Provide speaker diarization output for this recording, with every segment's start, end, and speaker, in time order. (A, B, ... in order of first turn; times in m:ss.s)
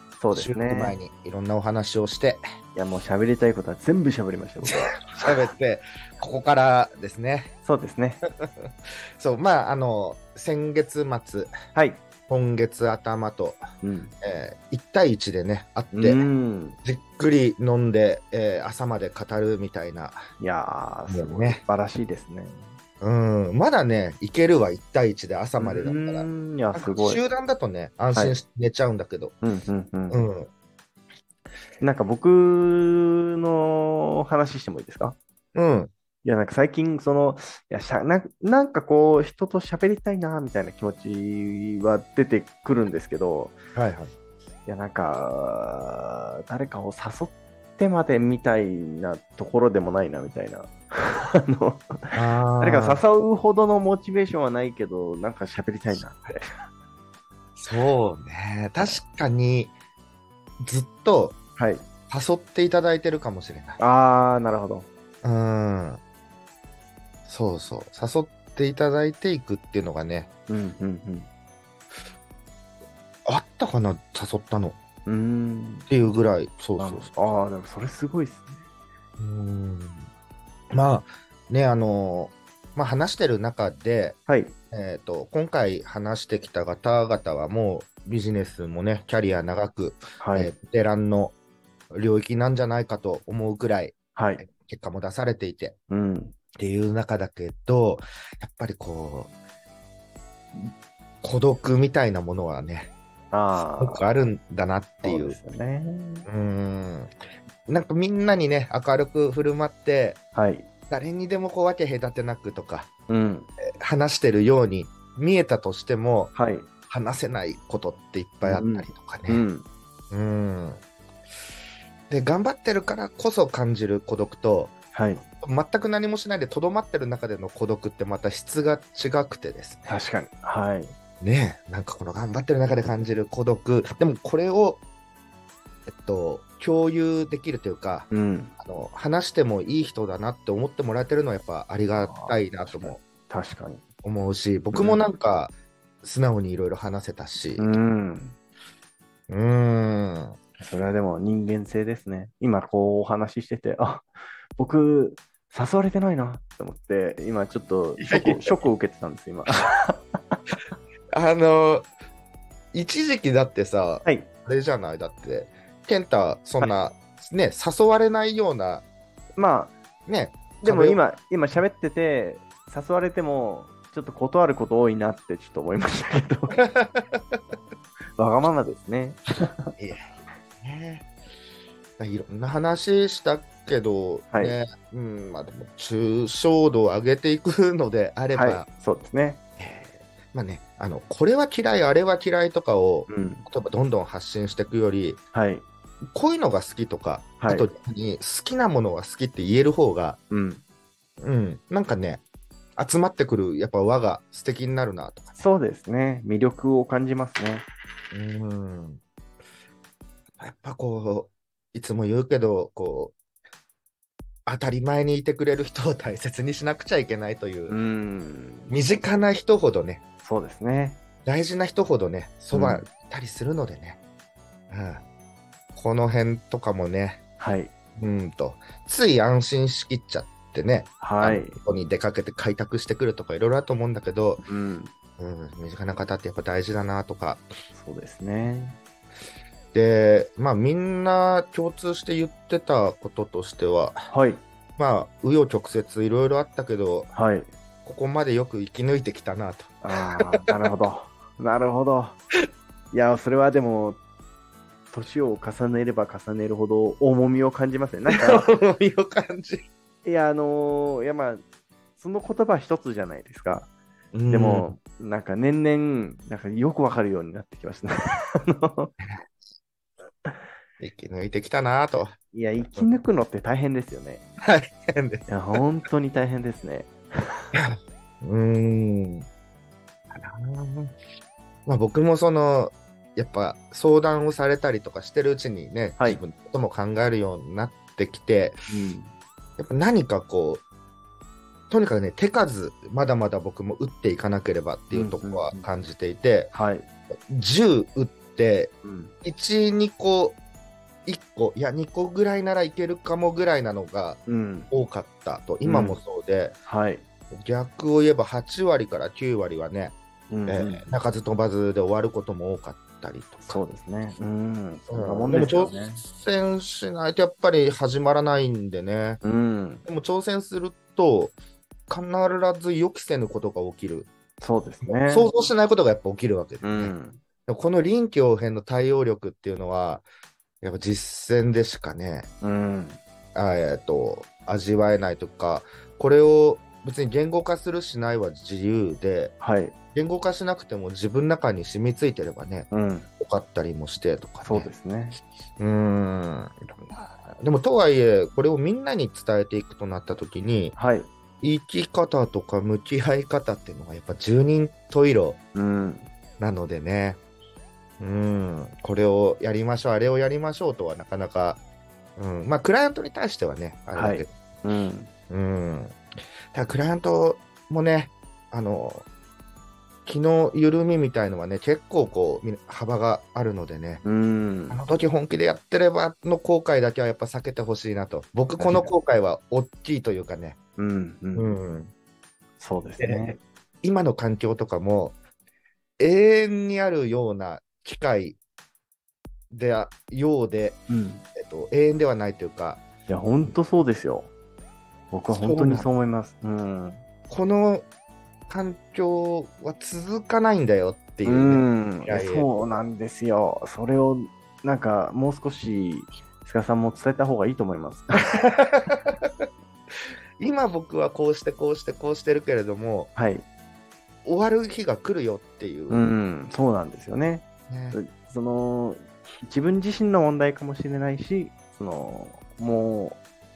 0:00.2-0:01.0 A
0:00.3-0:02.4 B
0:02.8-0:05.4 A
0:04.7-0:07.5 B
0:07.6-0:08.2 A
0:08.4-0:11.5 B
0:11.7-0:12.0 A
0:12.3-0:13.6 B
0:13.8-0:14.1 A
0:14.2-0:16.3 B
0:15.9-0:16.8 A
0:16.8-0:20.2 B
0:20.4-0:22.7 A
0:21.1-0:21.6 B
0:23.0-0:29.3 B
0:25.6-0:27.2 A
0:29.4-0:30.2 A
0:30.1-0:30.5 B
0:31.8-0:35.2 A
0:35.6-0:35.9 B
0:36.2-0:43.6 A
0:43.8-0:44.1 B
0:44.7-0:56.5 A
0:52.1-0:53.0 B
0:57.6-0:59.7 B
1:00.6-1:01.4 B
1:01.6-1:01.9 A
1:02.1-1:03.8 B
1:03.8-1:04.9 A
1:05.2-1:06.0 B
1:07.2-1:10.3 B
1:10.5-1:11.3 A
1:13.2-1:14.8 B
1:15.1-1:15.9 A
1:15.9-1:17.1 B
1:16.8-1:18.7 A
1:19.2-1:20.1 B
1:20.7-1:24.2 B
1:24.3-1:24.6 A
1:24.7-1:31.3 B
1:30.2-1:30.5 A
1:31.9-1:35.8 B
1:34.1-1:34.4 A
1:35.9-1:36.3 A
1:36.6-1:39.3 B
1:40.6-1:42.9 B
1:43.3-1:44.0 A
1:43.8-1:45.4 B
1:45.0-1:46.3 A
1:46.2-1:47.1 B
1:47.7-1:50.2 B
1:50.3-1:50.7 A
1:50.9-1:52.9 B
1:53.1-1:53.5 A
1:53.8-1:56.3 B
1:56.3-1:56.7 A
1:56.9-1:59.5 B
1:58.4-1:59.7 A
2:00.1-2:00.8 B
2:02.1-2:09.9 B
2:04.9-2:05.2 A
2:09.9-2:10.9 A
2:11.2-2:14.8 B
2:15.8-2:23.0 B
2:18.1-2:18.5 A
2:22.0-2:23.8 A
2:24.0-2:27.7 B
2:24.7-2:25.0 A
2:27.6-2:28.4 A
2:29.3-2:30.4 B
2:30.6-2:40.4 A
2:38.0-2:38.5 B
2:41.1-2:41.9 B
2:42.7-2:48.8 B
2:49.4-2:49.8 A
2:50.1-2:51.0 B
2:50.6-2:56.6 A
2:56.6-2:57.4 B
2:58.2-2:59.7 A
2:59.8-3:00.1 B
3:00.6-3:01.1 B
3:02.0-3:08.7 B
3:04.3-3:04.6 A
3:08.3-3:09.4 A
3:09.6-3:15.2 B
3:13.1-3:13.4 A
3:15.3-3:15.6 A
3:16.1-3:20.2 B
3:17.4-3:17.7 A
3:20.3-3:20.6 A
3:21.2-3:22.2 B
3:22.8-3:25.4 B
3:25.4-3:27.6 A
3:28.1-3:29.0 B
3:30.4-3:33.1 B
3:34.5-3:37.8 B
3:37.7-3:38.8 A
3:38.7-3:40.0 B
3:40.2-3:41.0 A
3:41.2-3:44.0 B
3:42.5-3:42.8 A
3:44.7-3:45.0 B
3:45.8-3:47.2 B
3:47.4-3:47.7 A
3:48.0-3:54.4 B
3:51.0-3:51.6 A
3:54.4-3:54.9 A
3:55.2-3:57.5 B
3:57.7-3:58.8 A
3:59.7-4:04.0 B
4:04.1-4:04.4 A
4:04.8-4:07.1 B
4:07.1-4:07.5 A
4:07.8-4:09.8 B
4:09.8-4:12.2 A
4:12.9-4:14.0 A
4:14.9-4:18.5 A
4:18.1-4:19.6 B
4:20.0-4:21.4 A
4:22.0-4:23.7 A
4:24.1-4:24.7 B
4:24.3-4:28.9 A
4:30.8-4:32.9 B
4:32.3-4:34.2 A
4:34.4-4:35.3 B
4:35.3-4:37.4 A
4:37.5-4:39.3 B
4:40.1-4:40.9 B
4:41.6-4:48.6 B
4:48.7-4:49.1 A
4:49.6-4:50.6 B
4:51.7-4:56.5 B
4:54.9-4:55.6 A
4:56.5-4:56.9 A
4:57.1-5:00.4 B
4:58.8-4:59.1 A
5:01.1-5:06.6 B
5:04.3-5:04.7 A
5:05.6-5:06.0 A
5:06.6-5:07.0 A
5:07.3-5:09.9 B
5:10.3-5:10.9 A
5:10.5-5:13.6 B
5:13.5-5:16.0 A
5:14.9-5:19.2 B
5:19.2-5:19.8 A
5:19.9-5:21.4 B
5:21.9-5:24.1 B
5:24.4-5:25.3 A
5:24.9-5:26.9 B
5:26.6-5:27.2 A
5:27.5-5:30.0 B
5:30.6-5:32.3 B
5:32.4-5:33.0 A
5:33.4-5:39.4 B
5:39.4-5:39.8 A
5:39.9-5:42.7 B
5:42.7-5:43.1 A
5:43.2-5:44.7 B
5:44.4-5:45.2 A
5:45.6-5:50.8 B
5:50.8-5:51.1 A
5:51.4-5:55.4 B
5:55.6-5:56.1 A
5:56.4-5:57.2 B
5:58.0-6:01.6 B
6:02.2-6:04.3 B
6:03.9-6:05.1 A
6:05.3-6:06.0 B
6:06.5-6:09.1 B
6:10.1-6:14.0 B
6:14.0-6:14.8 A
6:14.7-6:20.6 B
6:18.6-6:18.9 A
6:20.8-6:21.5 A
6:21.4-6:21.9 B
6:22.6-6:23.4 A
6:23.0-6:25.2 B
6:26.0-6:28.4 B
6:29.5-6:30.8 B
6:30.9-6:31.2 A
6:31.4-6:32.8 B
6:33.1-6:34.3 A
6:35.1-6:37.0 A
6:35.3-6:35.9 B
6:37.3-6:37.9 B
6:38.5-6:42.8 B
6:41.2-6:48.3 A
6:48.3-6:49.5 B
6:50.4-6:53.1 B
6:53.2-6:53.4 A
6:54.2-6:56.1 B
6:55.9-7:03.2 A
6:57.7-6:58.0 B